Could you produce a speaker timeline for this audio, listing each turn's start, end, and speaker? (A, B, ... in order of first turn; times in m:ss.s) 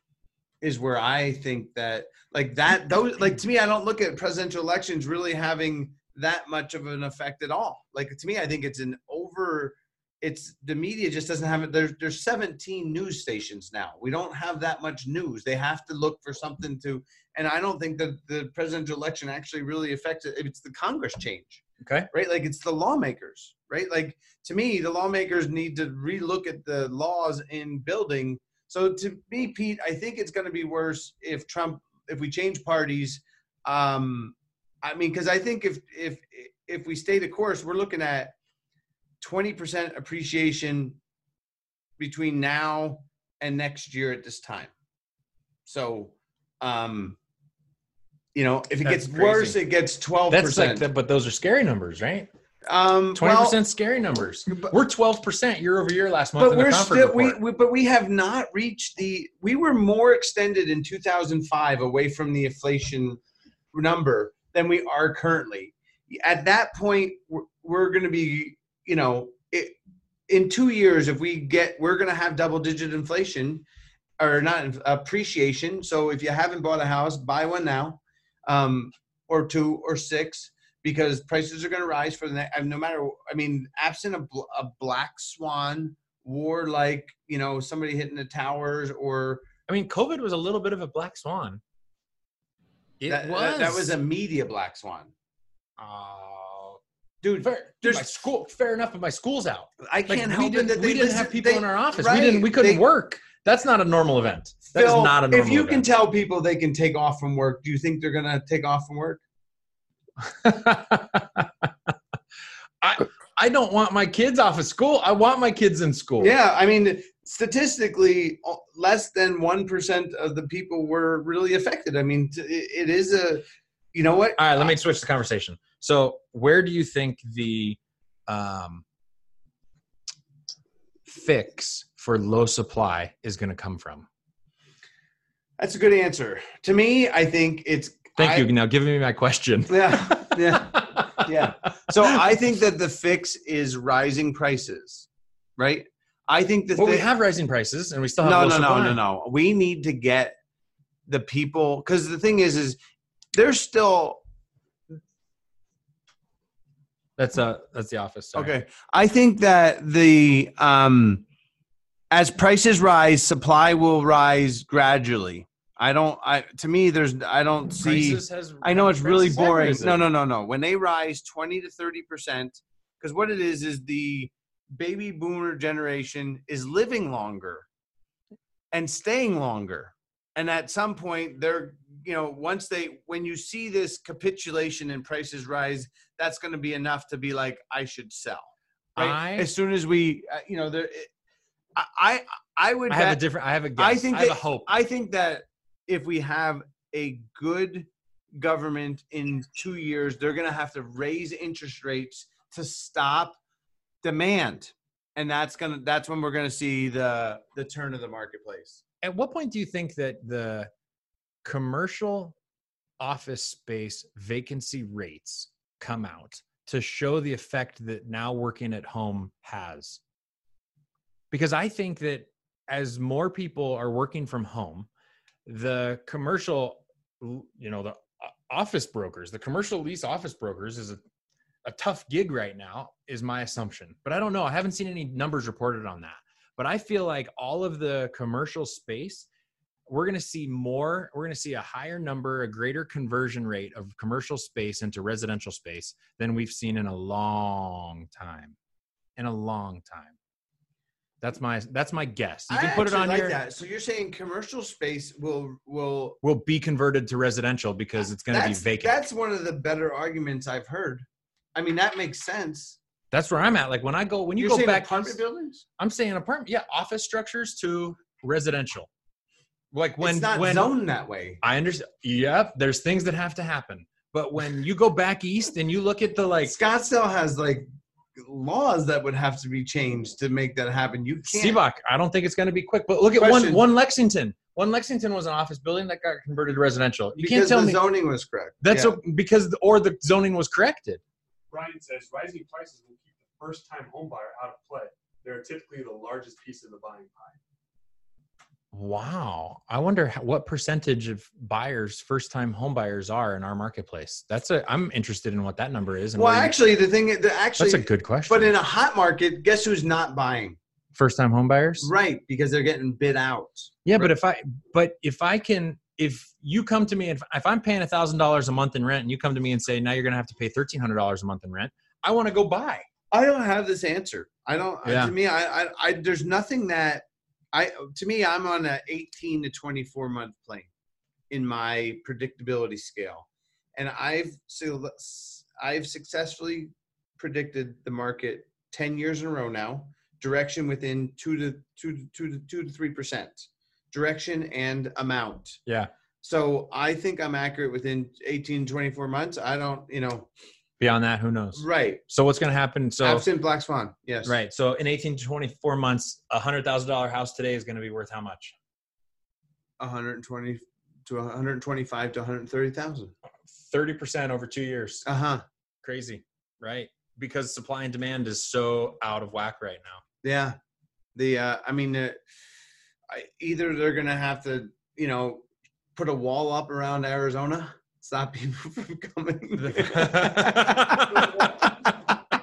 0:00.6-0:38.4 A
0:21.8-0:22.1 B
0:39.2-0:41.0 A
0:42.0-0:44.7 A
0:45.7-0:47.2 A
0:48.4-0:50.9 A
0:48.8-0:49.6 B
0:50.3-0:52.3 B
0:52.7-0:53.6 A
0:53.2-0:57.4 B
0:54.5-0:54.7 A
0:56.4-1:03.2 A
1:03.7-1:09.8 A
1:10.3-1:13.6 A
1:14.2-1:29.4 A
1:29.7-1:31.6 B
1:33.0-1:34.0 B
1:33.1-1:35.1 A
1:35.8-1:36.8 B
1:37.2-1:38.1 A
1:37.4-1:45.9 B
1:39.8-1:42.8 A
1:44.7-1:49.2 A
1:50.2-1:51.9 B
1:52.8-1:56.3 B
1:56.2-2:04.7 A
2:04.4-2:08.8 B
2:11.1-2:14.1 B
2:15.6-2:18.5 A
2:18.2-2:21.4 B
2:19.7-2:27.1 A
2:21.9-2:22.2 B
2:26.8-2:29.0 B
2:28.2-2:30.4 A
2:31.1-2:32.8 A
2:33.3-2:34.2 A
2:37.2-2:38.5 B
2:38.3-2:41.2 A
2:42.1-2:57.7 A
2:47.8-2:50.0 B
2:58.7-3:11.1 A
3:09.0-3:09.5 B
3:11.8-3:13.2 A
3:12.9-3:14.7 B
3:13.8-3:23.4 A
3:24.0-3:28.8 A
3:29.0-3:30.7 B
3:31.4-3:32.4 B
3:33.0-3:40.0 B
3:41.3-3:44.9 B
3:45.5-3:51.0 B
3:51.6-3:59.3 B
3:59.9-4:08.6 B
4:09.2-4:10.2 B
4:11.2-4:13.4 B
4:12.5-4:16.2 A
4:16.2-4:19.0 B
4:18.3-4:22.8 A
4:23.1-4:25.2 B
4:24.4-4:25.6 A
4:25.8-4:28.9 B
4:29.7-4:30.7 B
4:30.0-4:31.4 A
4:31.4-4:36.6 B
4:36.4-4:37.7 A
4:38.2-4:41.6 A
4:41.3-4:47.8 B
4:43.2-4:43.6 A
4:47.2-4:49.0 A
4:48.6-4:51.0 B
4:51.5-4:57.4 C
4:58.7-5:06.5 B
5:06.2-5:10.6 A
5:07.6-5:08.5 B
5:10.9-5:11.9 B
5:11.8-5:14.1 A
5:13.9-5:22.9 B
5:23.1-5:30.7 A
5:24.8-5:25.1 B
5:31.3-5:45.6 A
5:46.2-5:50.3 A
5:50.8-5:53.3 B
5:51.6-5:52.0 A
5:53.0-5:54.4 A
5:54.2-5:58.5 B
5:59.8-6:03.1 A
6:03.5-6:05.1 B
6:05.0-6:05.4 A
6:05.8-6:10.0 B
6:10.2-6:10.6 A
6:11.2-6:12.2 A
6:13.1-6:21.9 A
6:19.6-6:21.9 B